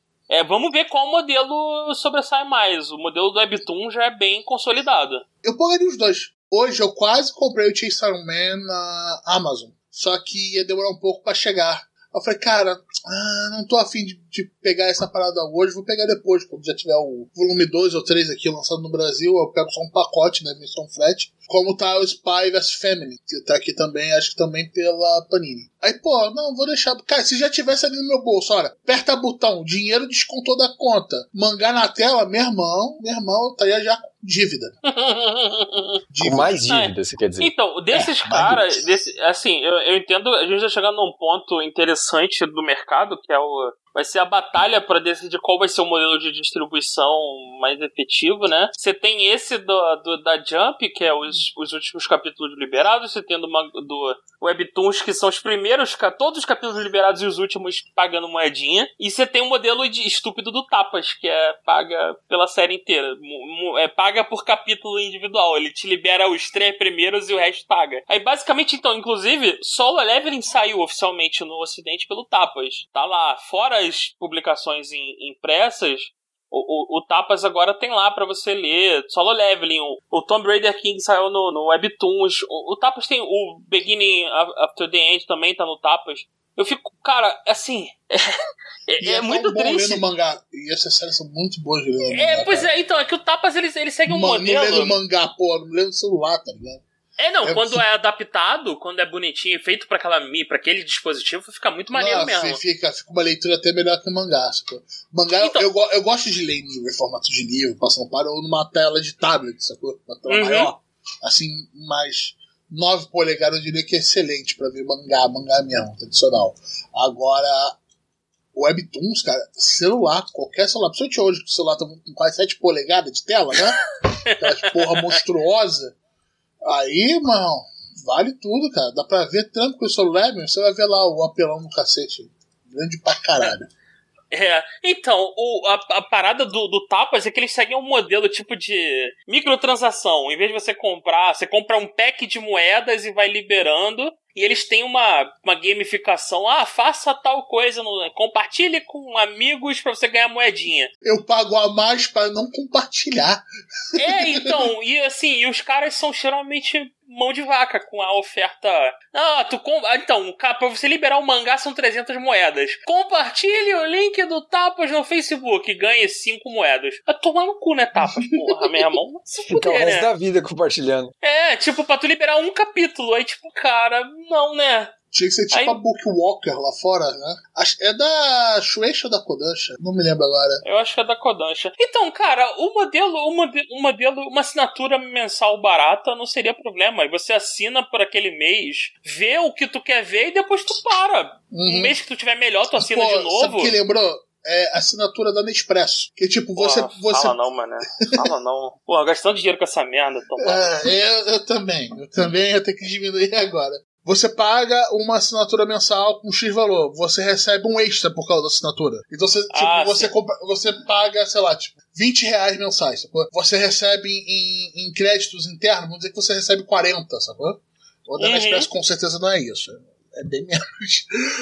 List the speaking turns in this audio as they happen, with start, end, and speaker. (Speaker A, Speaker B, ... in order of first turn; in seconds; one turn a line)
Speaker A: 0.3-5.2
Speaker B: 5.4-34.7
Speaker A: 34.8-36.0
Speaker B: 36.1-36.5
Speaker C: 36.2-37.5
Speaker A: 36.7-88.3
Speaker B: 37.9-38.7
Speaker A: 88.9-90.0
Speaker B: 89.0-92.7
Speaker A: 92.1-95.0
Speaker B: 94.1-96.8
Speaker A: 97.2-102.6
Speaker B: 97.4-97.8
Speaker B: 101.9-117.8
Speaker A: 105.3-105.7
Speaker A: 110.3-110.7
Speaker B: 118.5-123.8
Speaker A: 124.2-125.1
Speaker B: 124.3-125.9
Speaker B: 126.6-133.7
Speaker A: 134.3-150.9
Speaker B: 151.0-153.4
Speaker A: 153.9-170.1
Speaker B: 154.0-154.6
Speaker B: 168.0-168.8
Speaker C: 169.5-171.1
Speaker A: 171.2-174.9
Speaker B: 175.1-180.6
Speaker A: 175.5-175.8
Speaker A: 180.6-193.7
Speaker B: 191.5-191.9
Speaker B: 192.8-197.3
Speaker A: 196.6-200.7
Speaker B: 200.4-221.1
Speaker A: 209.5-210.1
Speaker A: 218.2-218.7